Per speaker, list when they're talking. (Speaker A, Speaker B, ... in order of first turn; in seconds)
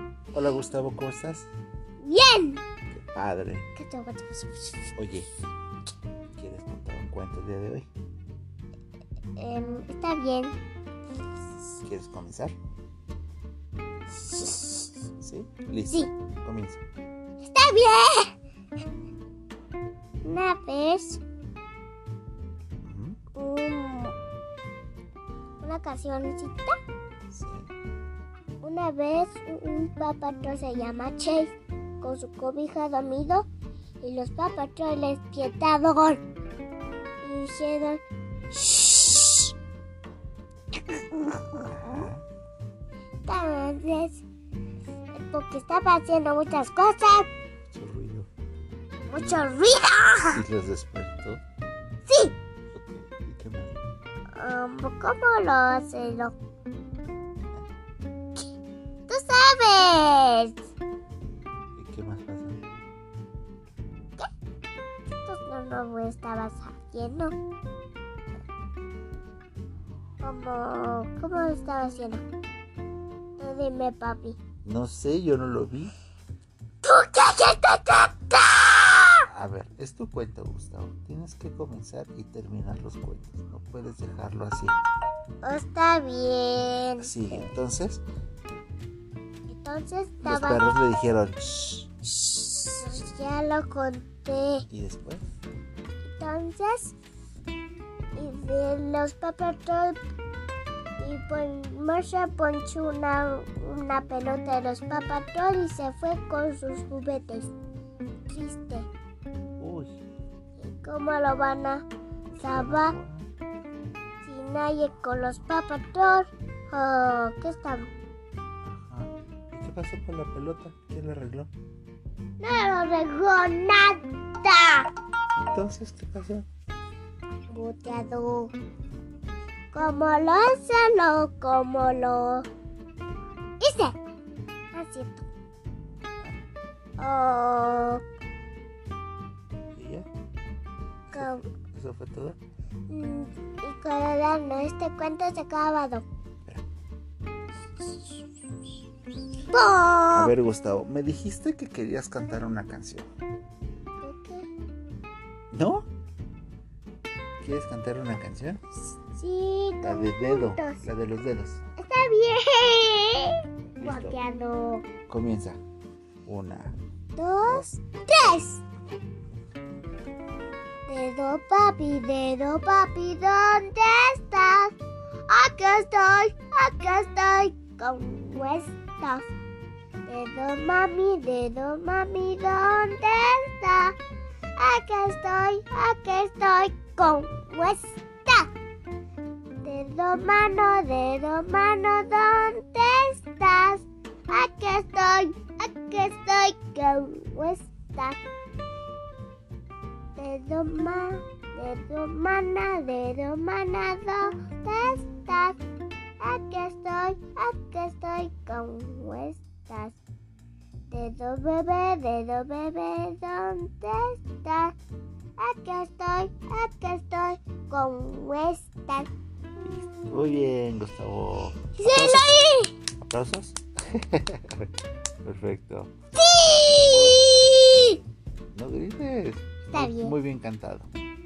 Speaker A: 0.3-1.5, 2.9-3.7, 5.0-5.3, 6.3-7.9, 11.8-12.6, 15.2-16.8, 22.8-23.2, 27.3-27.7, 41.4-42.2, 47.7-48.3, 49.1-49.5, 50.3-51.4, 52.7-53.7, 61.8-62.6, 74.6-75.9, 79.3-84.8, 87.0-88.0, 90.2-91.9, 94.7-95.2, 109.6-110.0, 112.3-113.3, 118.6-121.5, 125.4-126.4, 139.8-140.1, 141.1-142.4, 150.1-153.1, 155.5-155.9, 157.4-158.6, 159.8-161.6, 163.8-164.2, 165.1-165.6, 166.2-166.8, 219.6-222.3, 223.0-224.7, 225.2-225.9, 226.7-227.2, 228.5-230.9
Speaker B: 2.0-2.6, 3.8-4.9, 9.4-10.6, 14.2-14.9, 17.4-18.3, 20.2-21.2, 23.4-24.1, 25.6-26.8, 28.6-33.5, 34.0-36.2, 37.2-39.5, 40.9-42.0, 43.2-44.2, 45.1-47.3, 49.1-50.4, 52.1-52.3, 54.4-56.3, 59.1-60.6, 65.2-67.3, 70.2-72.2, 73.4-74.4, 76.8-79.2, 85.4-87.5, 89.5-90.7, 92.2-94.7, 96.0-97.0, 98.2-100.0, 101.0-107.5, 108.3-108.9, 110.6-111.8, 112.4-113.0, 114.2-117.9, 122.4-124.9, 127.5-128.5, 129.7-132.5, 133.6-134.0, 134.7-135.2, 137.0-138.0, 141.1-141.4, 142.9-146.0, 149.5-150.3, 154.0-154.5, 159.2-160.8, 161.8-164.8, 167.2-168.6, 170.9-174.8, 175.3-179.3, 180.1-184.0, 184.6-188.5, 189.6-198.2, 200.2-205.6, 206.2-210.0, 210.9-214.8, 215.4-219.1, 221.7-222.7, 226.2-228.0, 229.7-230.2